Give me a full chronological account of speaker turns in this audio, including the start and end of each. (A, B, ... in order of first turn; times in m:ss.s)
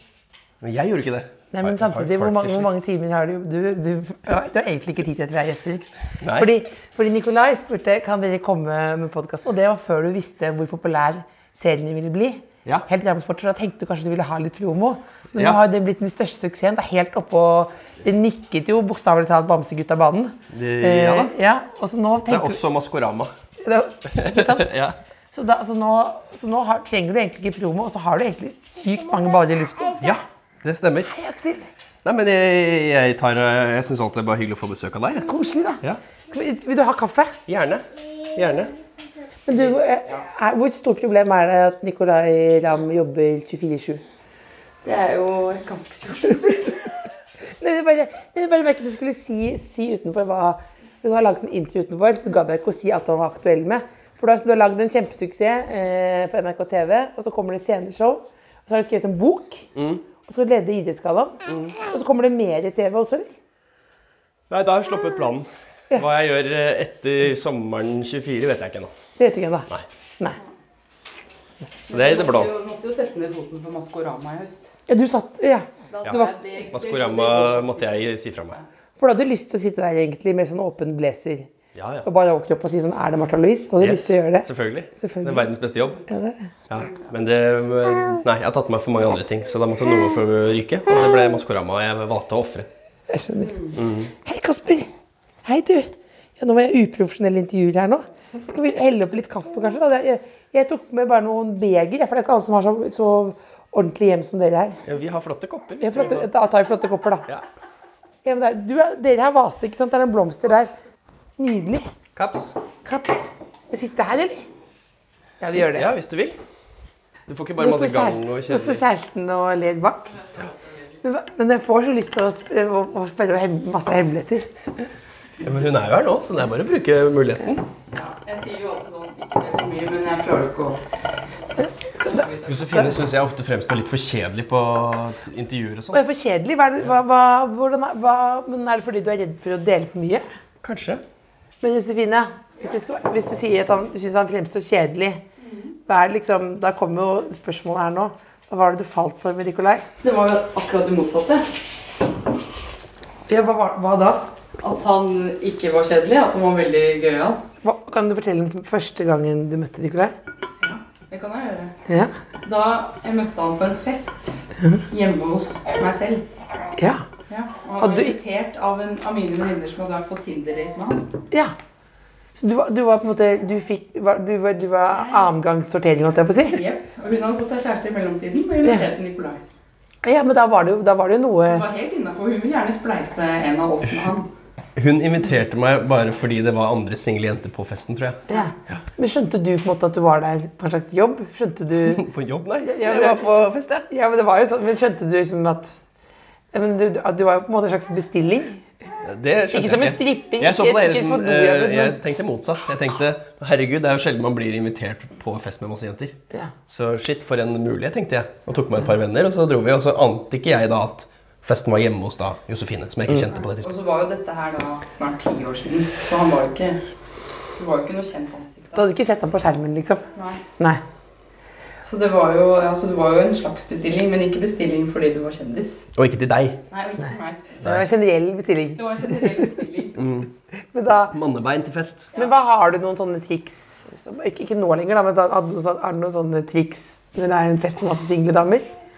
0:00.6-0:02.7 A
0:01.5-0:22.6 B
0:06.2-0:06.5 A
0:20.5-0:21.3 A
0:22.3-0:23.3 A
0:23.6-0:24.8 B
0:24.1-0:25.0 A
0:25.3-0:30.0 B
0:30.0-0:31.2 A
0:31.1-0:31.7 B
0:32.0-0:36.0 A
0:35.3-0:37.4 B
0:37.5-0:38.8 A
0:39.5-0:44.0 B
0:44.8-0:46.8 C
0:47.6-0:59.7 B
0:59.7-1:00.0 A
1:00.2-1:03.3 B
1:01.5-1:01.8 A
1:04.5-1:08.9 A
1:09.2-1:09.7 B
1:11.8-1:14.7 C
1:11.9-1:12.5 A
1:14.9-1:16.3 B
1:15.9-1:18.6 C
1:16.0-1:18.6 A
1:19.0-1:21.5 B
1:21.7-1:22.1 A
1:22.0-1:25.5 B
1:23.8-1:26.0 A
1:26.1-1:26.5 B
1:26.7-1:32.7 A
1:33.1-1:34.9 B
1:33.8-1:34.1 A
1:35.4-1:44.8 B
1:44.8-1:46.3 A
1:45.8-1:47.3 B
1:48.2-1:50.7 B
1:51.4-1:51.9 B
1:52.1-1:52.6 A
1:52.8-1:54.5 B
1:55.4-1:55.9 B
1:55.4-1:56.4 A
1:57.3-1:58.8 A
1:57.6-2:00.2 B
2:01.0-2:04.5 B
2:05.4-2:07.6 A
2:07.9-2:10.8 C
2:12.0-2:12.7 C
2:12.4-2:16.0 A
2:15.9-2:20.2 B
2:20.6-2:21.0 A
2:21.6-2:25.2 B
2:25.9-2:29.8 B
2:30.0-2:31.5 C
2:33.3-2:34.2 B
2:34.6-2:37.4 C
2:37.6-2:40.1 B
2:40.6-2:41.7 C
2:42.4-2:44.4 C
2:44.9-2:46.2 C
2:46.8-2:47.0 B
2:47.3-2:51.1 C
2:47.8-2:48.1 B
2:52.4-2:56.6 B
2:54.9-2:55.3 C
2:56.5-2:59.4 C
3:00.0-3:01.6 B
3:01.5-3:04.3 C
3:04.8-3:08.8 A
3:08.3-3:12.0 B
3:11.8-3:13.9 A
3:12.6-3:13.3 B
3:13.8-3:15.8 B
3:16.5-3:18.6 B
3:19.0-3:26.2 A
3:19.5-3:22.0 B
3:26.7-3:33.7 A
3:33.6-3:36.8 C
3:37.6-3:38.8 C
3:38.8-3:40.0 B
3:40.1-3:40.4 C
3:41.8-3:45.9 C
3:45.9-3:46.6 A
3:46.7-3:47.7 C
3:47.6-3:49.6 B
3:48.8-3:50.0 C
3:50.0-3:50.3 A
3:50.7-3:51.2 B
3:51.1-3:52.1 A
3:52.1-3:58.7 B